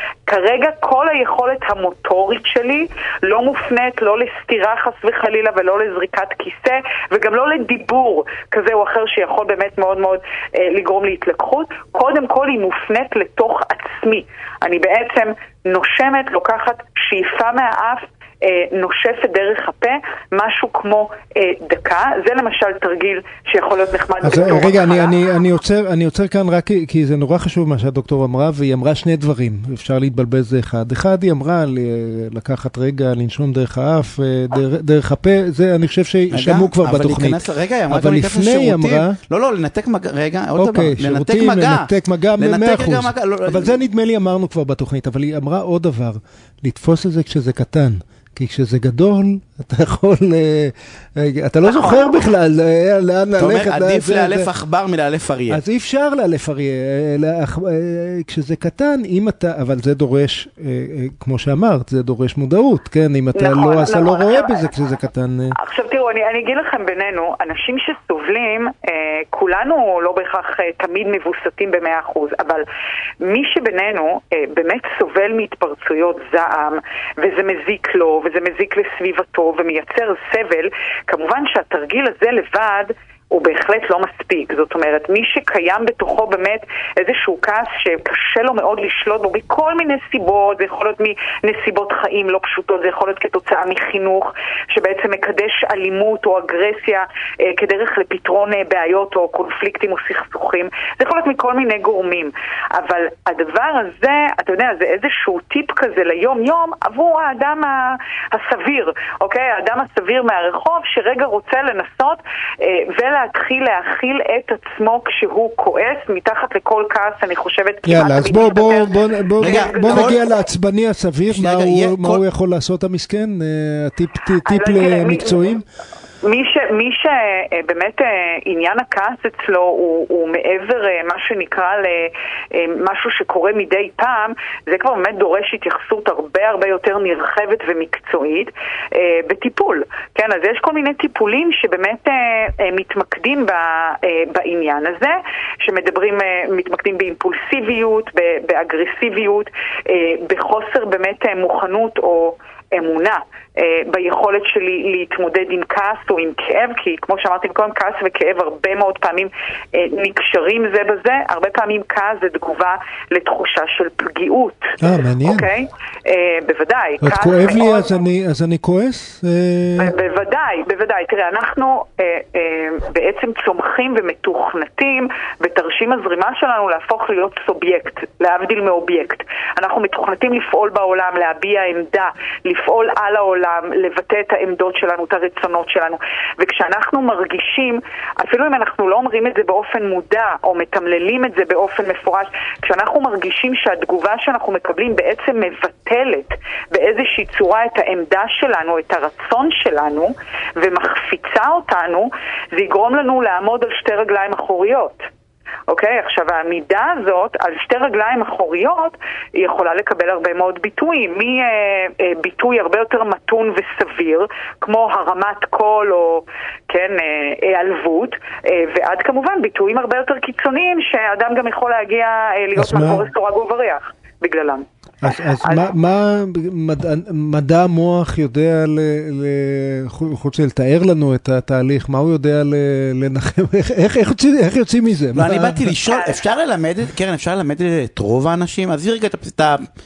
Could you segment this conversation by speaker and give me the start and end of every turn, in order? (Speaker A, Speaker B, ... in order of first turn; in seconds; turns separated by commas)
Speaker A: 0.3-25.2, Speaker B: 24.2-39.1, Speaker C: 36.3-43.8, Speaker B: 40.6-54.5, Speaker A: 51.6-52.3, Speaker C: 53.4-55.6, Speaker B: 55.5-65.5, Speaker A: 63.3-64.7, Speaker A: 65.5-72.6, Speaker A: 73.2-120.3, Speaker B: 117.8-125.6, Speaker C: 119.4-120.2, Speaker C: 121.3-122.2, Speaker A: 124.4-125.6, Speaker A: 126.2-168.0, Speaker B: 164.8-165.5, Speaker B: 167.0-169.9, Speaker A: 169.8-205.1, Speaker A: 205.7-224.6, Speaker B: 222.5-223.1, Speaker B: 225.0-235.7, Speaker A: 225.3-225.7, Speaker C: 235.1-239.6, Speaker A: 235.9-236.2